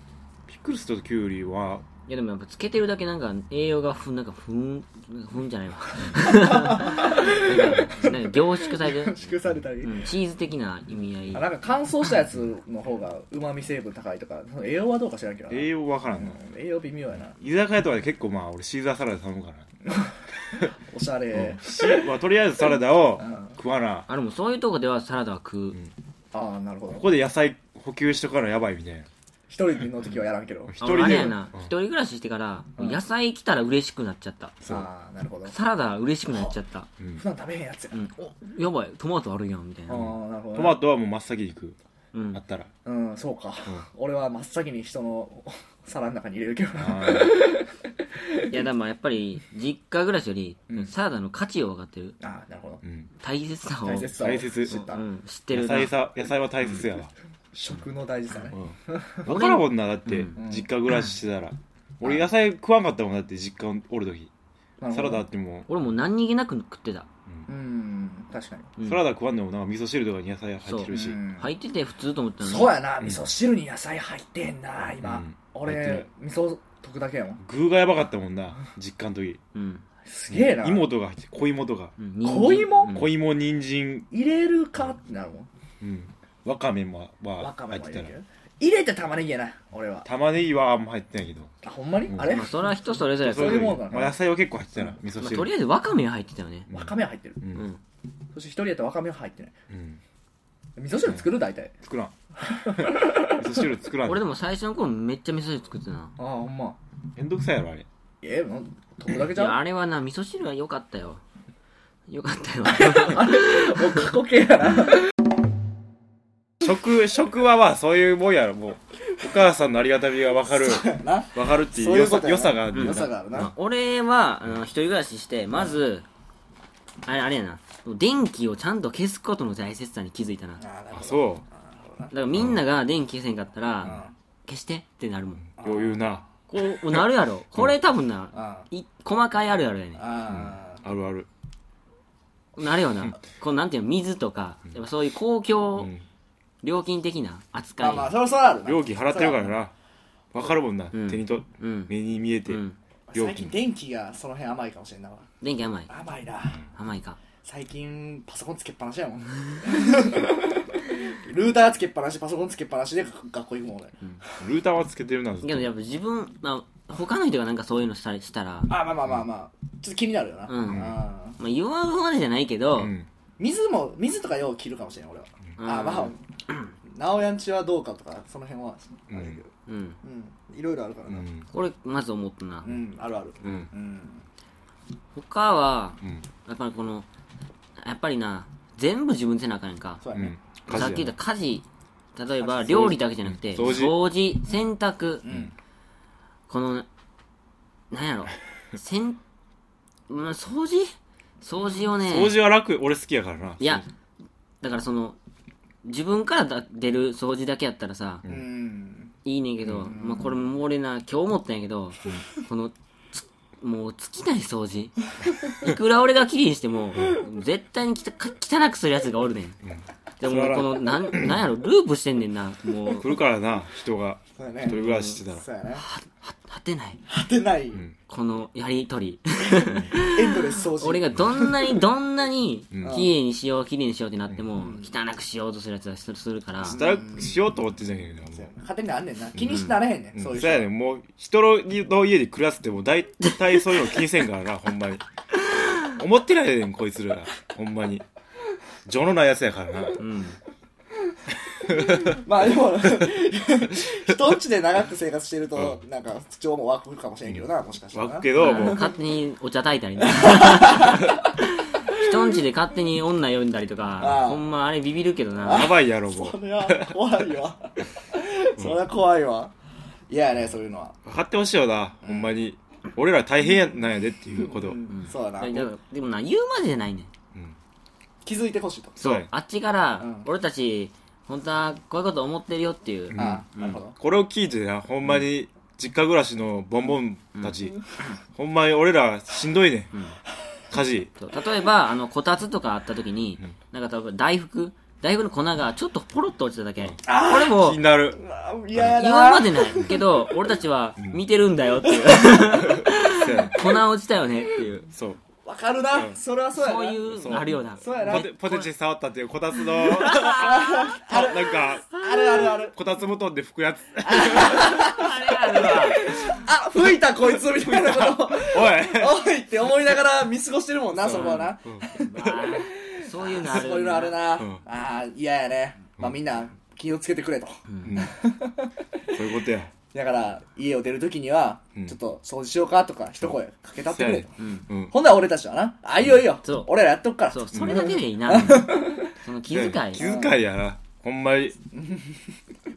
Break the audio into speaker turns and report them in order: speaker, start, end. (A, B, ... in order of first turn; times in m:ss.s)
0:00.5-0:01.8 A
0:02.1-0:09.3 B
0:06.2-0:10.1 C
0:09.8-0:11.5 B
0:11.3-0:17.4 C
0:15.5-0:16.4 A
0:17.4-0:19.7 A
0:19.9-0:21.8 C
0:21.3-0:24.1 A
0:23.2-0:23.5 C
0:24.1-0:25.8 B
0:26.3-0:27.1 C
0:26.9-0:29.1 A
0:29.5-0:31.3 C
0:30.7-0:31.7 A
0:30.8-0:34.6 B
0:34.7-0:35.5 C
0:35.5-0:36.9 B
0:37.2-0:38.1 C
0:37.9-0:40.1 B
0:39.9-0:40.8 C
0:40.5-0:41.8 A
0:42.1-0:42.4 B
0:42.3-0:42.7 A
0:42.8-0:48.5 C
0:46.8-0:47.4 A
0:48.5-0:52.2 B
0:52.2-0:52.8 C
0:52.8-0:53.1 A
0:53.2-0:55.9 B
0:53.8-0:55.0 C
0:54.2-0:54.9 A
0:55.5-0:57.1 A
0:57.5-0:59.3 C
0:58.5-1:04.3 A
0:59.2-1:00.4 B
1:00.4-1:00.7 C
1:04.8-1:05.3 C
1:04.9-1:05.7 A
1:05.7-1:07.1 B
1:07.5-1:08.7 C
1:08.8-1:09.0 B
1:08.8-1:11.2 A
1:10.6-1:12.8 B
1:10.9-1:11.5 C
1:12.4-1:17.4 C
1:15.0-1:16.1 A
1:17.4-1:19.4 A
1:19.5-1:19.8 B
1:20.1-1:20.9 C
1:20.3-1:21.9 A
1:22.0-1:23.1 B
1:22.2-1:23.0 C
1:22.9-1:24.1 A
1:24.1-1:25.5 C
1:25.8-1:28.1 A
1:27.4-1:30.1 C
1:30.0-1:31.5 A
1:31.6-1:32.7 C
1:32.2-1:33.8 B
1:33.2-1:35.5 A
1:33.2-1:34.2 C
1:35.2-1:36.7 B
1:36.7-1:37.6 A
1:36.7-1:37.4 C
1:38.3-1:39.5 C
1:39.7-1:40.0 A
1:40.8-1:41.7 C
1:41.8-1:42.1 A
1:42.4-1:43.6 C
1:42.8-1:44.2 A
1:44.1-1:46.1 B
1:46.2-1:46.8 C
1:47.2-1:47.9 A
1:48.2-1:49.6 C
1:49.2-1:51.2 B
1:52.1-1:54.0 B
1:52.8-1:55.1 C
1:56.6-2:03.2 A
2:00.5-2:03.5 C
2:02.7-2:06.1 B
2:07.1-2:10.6 B
2:10.6-2:12.1 C
2:10.9-2:11.4 A
2:12.1-2:15.4 B
2:13.8-2:14.1 C
2:15.6-2:16.1 C
2:15.6-2:16.3 A
2:16.5-2:20.0 B
2:16.9-2:17.7 A
2:18.3-2:18.7 C
2:20.0-2:20.8 C
2:20.3-2:21.3 A
2:22.6-2:25.9 B
2:25.8-2:26.0 A
2:26.6-2:28.1 B
2:27.8-2:29.5 C
2:28.6-2:29.7 A
2:30.3-2:32.6 A
2:30.9-2:31.9 B
2:32.5-2:32.8 B
2:33.1-2:35.3 C
2:33.1-2:33.5 A
2:35.4-2:35.9 B
2:35.9-2:36.6 C
2:36.7-2:37.2 B
2:37.4-2:44.4 C
2:44.4-2:45.7 A
2:45.4-2:48.8 B
2:48.7-2:51.4 C
2:50.5-2:52.9 B
2:50.7-2:51.0 A
2:52.8-2:53.1 A
2:53.4-2:56.2 C
2:55.6-2:56.6 B
2:56.9-2:59.5 C
2:59.1-2:59.4 A
2:59.7-3:00.0 B
3:00.0-3:01.3 C
3:01.1-3:01.5 A
3:01.5-3:02.8 B
3:02.6-3:04.2 C
3:05.2-3:07.1 B
3:07.8-3:10.0 B
3:10.0-3:10.4 C
3:10.1-3:11.1 A
3:10.7-3:15.3 B
3:12.4-3:13.0 C
3:12.9-3:14.0 A
3:15.2-3:15.5 C
3:16.5-3:16.9 B
3:17.9-3:19.2 B
3:20.1-3:22.4 B
3:22.0-3:23.8 A
3:23.6-3:23.8 B
3:24.6-3:25.2 B
3:25.8-3:28.2 B
3:28.3-3:29.1 C
3:29.2-3:39.6 B
3:29.9-3:30.3 C
3:39.6-3:41.4 A
3:40.2-3:43.2 B
3:42.9-3:45.4 A
3:44.4-3:45.8 C
3:44.7-3:45.2 B
3:45.7-3:47.0 B
3:47.1-3:47.9 C
3:48.1-3:56.8 B
3:49.9-3:51.8 C
3:52.7-3:53.0 A
3:52.8-3:53.1 C
3:54.6-3:54.9 C
3:56.6-3:57.4 C
3:56.6-3:58.5 A
3:58.3-4:00.7 C
3:59.4-4:05.0 A
4:03.3-4:03.9 B
4:05.5-4:05.9 B
4:05.8-4:08.0 A
4:08.9-4:10.0 A
4:10.0-4:10.4 B
4:11.6-4:19.0 C
4:11.7-4:12.2 A
4:17.9-4:18.9 A
4:18.4-4:25.7 B
4:20.1-4:21.2 C
4:24.0-4:24.5 C
4:25.4-4:29.5 C
4:25.4-4:27.0 A
4:30.1-4:31.0 C
4:31.0-4:34.8 A
4:32.0-4:32.4 C
4:34.4-4:35.7 C
4:34.9-4:37.1 B
4:38.2-4:39.0 C
4:39.0-4:43.8 B
4:39.0-4:39.3 A
4:40.0-4:40.3 C
4:43.1-4:47.8 A
4:43.2-4:44.0 C
4:48.3-4:49.9 A
4:50.7-4:51.1 A
4:51.2-4:57.8 B
4:57.1-4:59.9 C
4:57.5-4:58.2 A
4:58.8-5:04.9 B
5:02.0-5:02.5 C
5:02.6-5:03.6 A
5:04.9-5:05.2 A
5:05.4-5:07.1 C
5:06.6-5:08.7 B
5:07.1-5:15.1 A
5:07.8-5:08.3 C
5:09.8-5:11.0 B
5:10.0-5:12.8 C
5:14.0-5:28.7 C
5:14.2-5:16.4 B
5:16.0-5:16.4 A
5:17.5-5:19.2 A
5:21.0-5:21.9 A
5:21.1-5:24.3 B
5:27.7-5:28.0 B
5:27.8-5:28.2 A
5:29.1-5:29.7 A
5:29.9-5:34.3 C
5:33.9-5:35.0 A
5:34.4-5:34.7 B
5:34.9-5:39.1 C
5:36.4-5:36.7 B
5:37.3-5:40.0 B
5:39.5-5:41.6 A
5:40.0-5:40.4 C
5:41.7-5:42.3 C